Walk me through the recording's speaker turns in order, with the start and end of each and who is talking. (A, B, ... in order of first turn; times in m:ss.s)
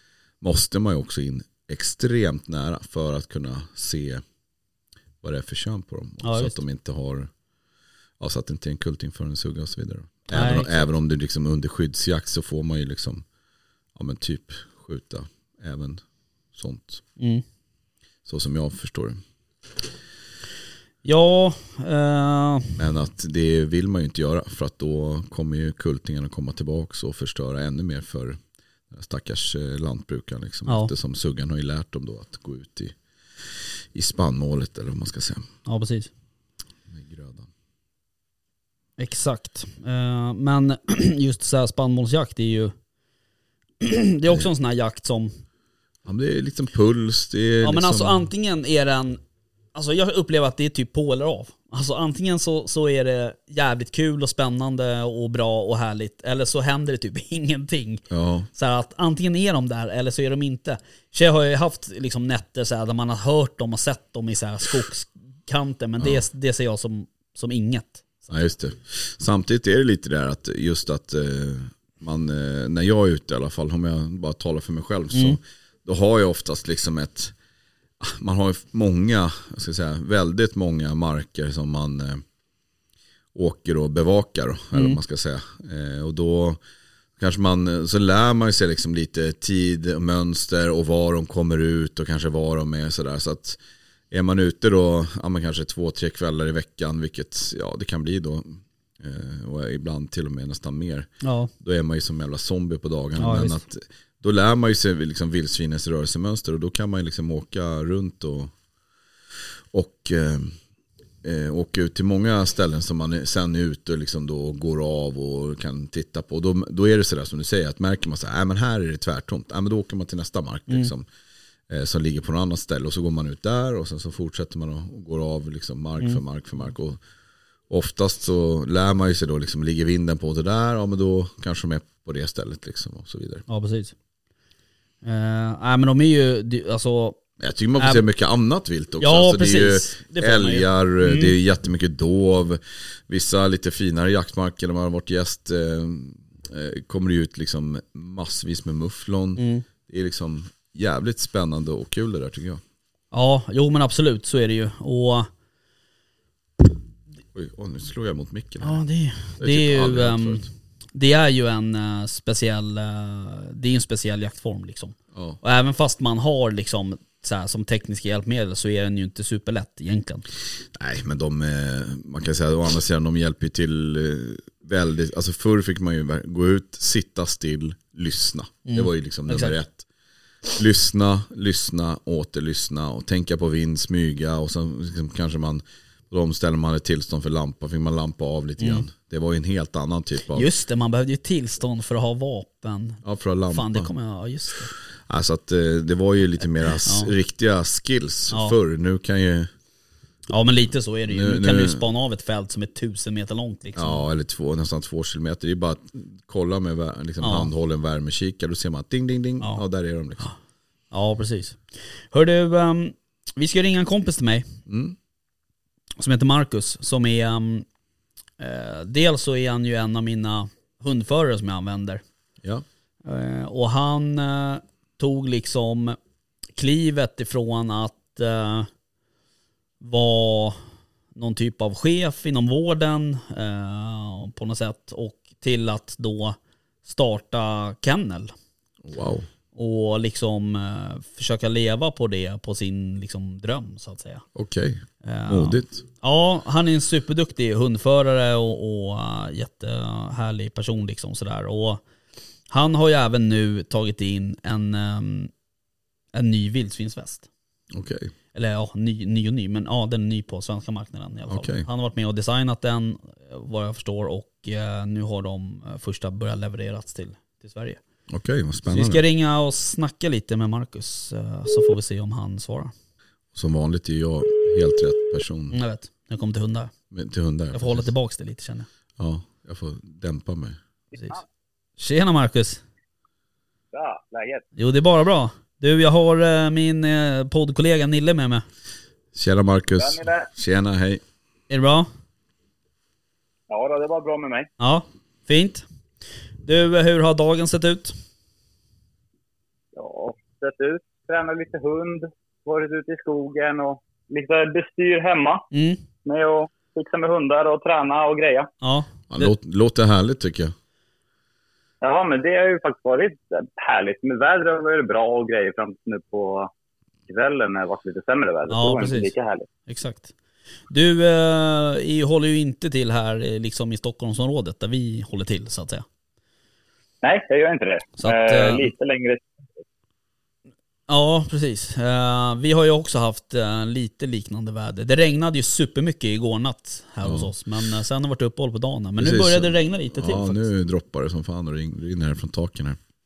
0:00.4-0:04.2 A
0:05.2-0:07.3 A
0:06.2-0:06.6 B
0:08.2-0:13.2 A
0:10.3-0:10.8 B
0:13.9-0:17.0 A
0:17.2-0:17.4 B
0:18.2-0:19.2 A
0:21.0-0:22.7 B
0:22.8-0:35.5 A
0:30.6-0:30.9 B
0:35.6-0:36.1 B
0:36.9-0:37.5 A
0:39.0-0:42.7 B
0:43.8-0:45.4 B
0:46.0-0:48.3 A
0:47.6-0:49.2 B
0:49.7-0:58.0 B
0:58.1-0:58.5 A
0:58.5-1:08.4 B
1:08.3-1:17.3 A
1:15.1-1:15.4 B
1:18.0-1:22.2 A
1:23.3-1:26.6 A
1:24.7-1:25.0 B
1:27.2-1:33.6 A
1:34.1-1:48.5 A
1:41.2-1:41.5 B
1:43.2-1:43.6 B
1:49.7-1:50.6 A
1:51.2-2:01.1 A
2:01.7-2:07.0 A
2:07.7-2:13.4 A
2:13.5-2:13.9 B
2:15.0-2:17.2 B
2:17.4-2:32.6 A
2:17.8-2:18.0 B
2:19.0-2:21.3 B
2:29.4-2:29.6 B
2:33.1-2:35.3 B
2:37.3-2:38.8 A
2:38.6-2:50.3 B
2:39.4-2:40.5 A
2:45.1-2:45.4 A
2:50.7-2:59.9 A
2:58.6-2:59.6 B
3:00.5-3:10.5 A
3:08.6-3:08.9 B
3:10.3-3:14.7 B
3:13.0-3:13.9 A
3:15.0-3:19.5 A
3:16.8-3:17.1 B
3:20.3-3:24.0 B
3:21.0-3:21.8 A
3:23.8-3:30.3 A
3:27.2-3:27.5 B
3:30.9-3:34.5 B
3:34.7-3:35.0 A
3:36.0-3:37.6 B
3:38.4-3:42.0 B
3:43.0-3:46.0 B
3:46.6-3:48.7 B
3:49.8-3:50.6 B
3:51.1-3:58.3 B
3:58.8-3:59.2 A
3:59.5-4:04.2 B
4:04.3-4:05.8 A
4:05.0-4:11.8 B
4:12.5-4:15.3 B
4:16.1-4:17.3 B
4:17.7-4:18.1 A
4:18.3-4:27.8 B
4:21.3-4:21.6 A
4:28.1-4:29.0 A
4:28.6-4:32.7 B
4:33.3-4:35.6 A
4:35.5-4:36.7 B
4:36.9-4:37.9 A
4:37.5-4:38.7 B
4:39.0-4:40.6 A
4:41.8-4:42.6 B
4:43.7-4:44.4 C
4:44.6-4:48.4 B
4:49.1-4:51.0 A
4:49.8-4:50.3 C
4:51.5-4:51.9 B
4:53.5-4:54.5 C
4:54.6-4:55.6 B
4:56.4-4:57.9 B
4:59.7-5:05.4 C
5:05.5-5:05.8 B
5:06.0-5:08.5 C
5:08.6-5:09.3 B
5:09.1-5:10.5 A
5:11.8-5:16.5 C
5:17.1-5:19.5 C
5:18.5-5:19.1 B
5:19.7-5:20.1 B
5:20.7-5:25.8 B
5:27.0-5:29.5 C
5:28.0-5:28.7 B
5:30.9-5:40.4 B
5:37.0-5:37.3 A
5:39.0-5:42.8 A